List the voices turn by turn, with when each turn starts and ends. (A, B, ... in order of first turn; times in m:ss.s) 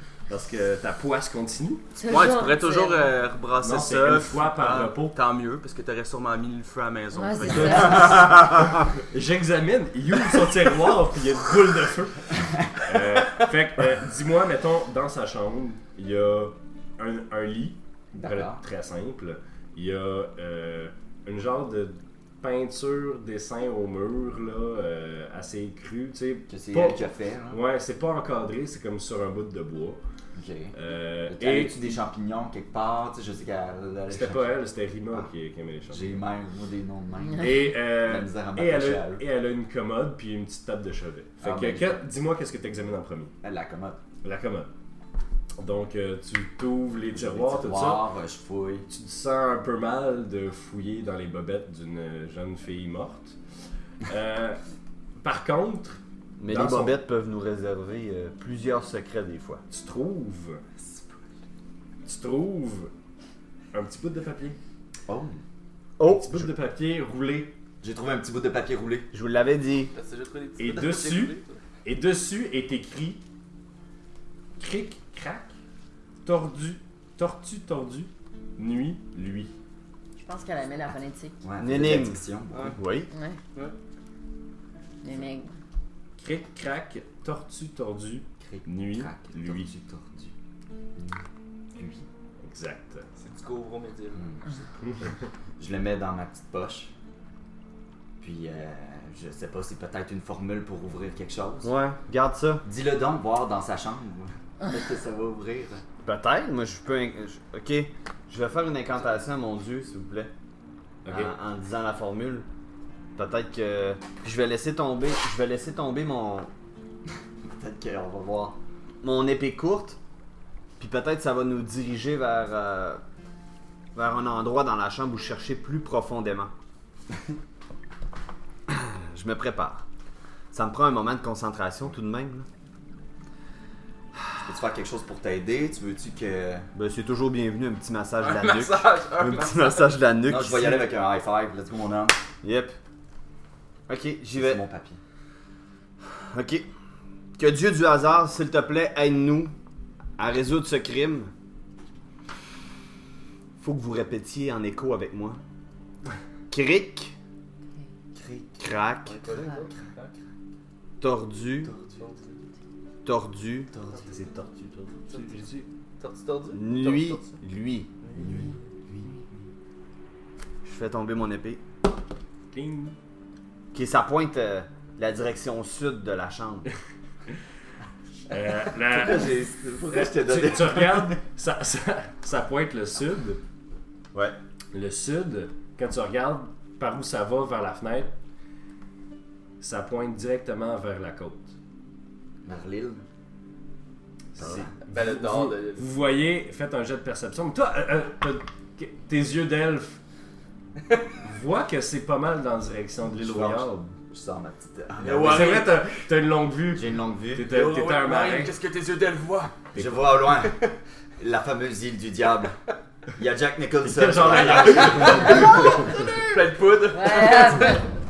0:00.3-0:01.9 A
0:02.0-0:03.1 B
0:02.0-0:08.5 C
0:03.6-0:05.2 A
0:07.1-0:08.2 B
0:07.6-0:30.0 A
0:18.1-0:18.6 D
0:26.5-0:27.6 D
0:30.3-0:30.8 D
0:30.7-0:32.0 A
0:31.3-0:34.6 D
0:34.1-0:36.2 A
0:35.9-0:39.2 D
0:37.3-0:43.3 A
0:41.4-0:42.0 D
0:43.4-0:44.0 D
0:44.2-0:44.7 A
0:45.6-0:48.0 A
0:47.1-0:48.9 D
0:48.9-0:53.4 A
0:54.0-0:54.6 A
0:55.2-0:57.0 A
0:56.4-0:59.6 E
0:59.7-1:00.6 A
1:00.8-1:01.2 C
1:02.0-1:02.9 A
1:03.7-1:04.6 A
1:05.1-1:05.4 D
1:06.0-1:06.5 E
1:06.0-1:07.6 A
1:07.8-1:09.1 D
1:09.1-1:09.9 E
1:09.9-1:11.6 C
1:10.6-1:13.2 A
1:14.6-1:15.5 A
1:16.2-1:19.5 A
1:20.2-1:21.4 B
1:21.4-1:22.8 D
1:21.6-1:22.2 E
1:22.5-1:22.8 C
1:22.7-1:23.1 E
1:23.1-1:23.4 B
1:25.0-1:25.6 B
1:26.2-1:29.7 A
1:28.4-1:30.3 D
1:31.7-1:32.1 D
1:32.4-1:33.1 A
1:33.2-1:34.7 C
1:35.0-1:36.9 D
1:38.2-1:41.7 D
1:41.6-1:42.6 E
1:42.6-1:45.8 D
1:46.0-1:50.3 E
1:51.0-1:51.3 A
1:51.1-1:52.5 E
1:53.2-1:56.5 E
1:57.4-1:58.6 D
1:59.0-2:00.0 E
2:00.8-2:03.0 E
2:03.9-2:06.5 E
2:08.7-2:09.8 E
2:10.5-2:12.4 E
2:14.4-2:16.7 D
2:16.7-2:20.9 E
2:18.2-2:20.0 C
2:20.2-2:22.2 D
2:22.4-2:22.8 E
2:23.9-2:24.6 E
2:24.3-2:25.0 D
2:26.1-2:26.7 E
2:27.4-2:29.5 E
2:30.2-2:31.3 E
2:33.6-2:35.4 E
2:36.5-2:37.1 E
2:38.1-2:38.6 D
2:38.6-2:39.2 E
2:39.0-2:40.1 C
2:41.0-2:41.7 E
2:41.6-2:42.0 D
2:41.9-2:42.4 C
2:43.0-2:43.7 E
2:43.7-2:44.2 D
2:44.0-2:45.7 A
2:45.1-2:45.4 C
2:46.0-2:47.3 C
2:46.5-2:47.9 E
2:48.0-2:48.4 C
2:48.2-2:49.2 D
2:50.6-2:51.6 E
2:52.5-2:53.0 A
2:53.7-2:56.7 E
2:58.3-3:03.4 A
2:58.9-3:01.2 D
3:04.7-3:08.1 A
3:09.6-3:11.5 A
3:12.4-3:13.0 D
3:14.3-3:20.0 A
3:14.4-3:14.7 D
3:14.8-3:15.9 C
3:21.2-3:23.9 A
3:23.2-3:25.7 D
3:25.0-3:25.8 C
3:25.1-3:28.6 A
3:26.7-3:27.6 D
3:27.5-3:29.7 C
3:29.7-3:30.1 A
3:29.7-3:30.6 D
3:30.4-3:30.7 C
3:31.2-3:32.6 D
3:33.2-3:35.6 D
3:33.8-3:35.8 A
3:34.2-3:37.8 C
3:36.9-3:37.8 B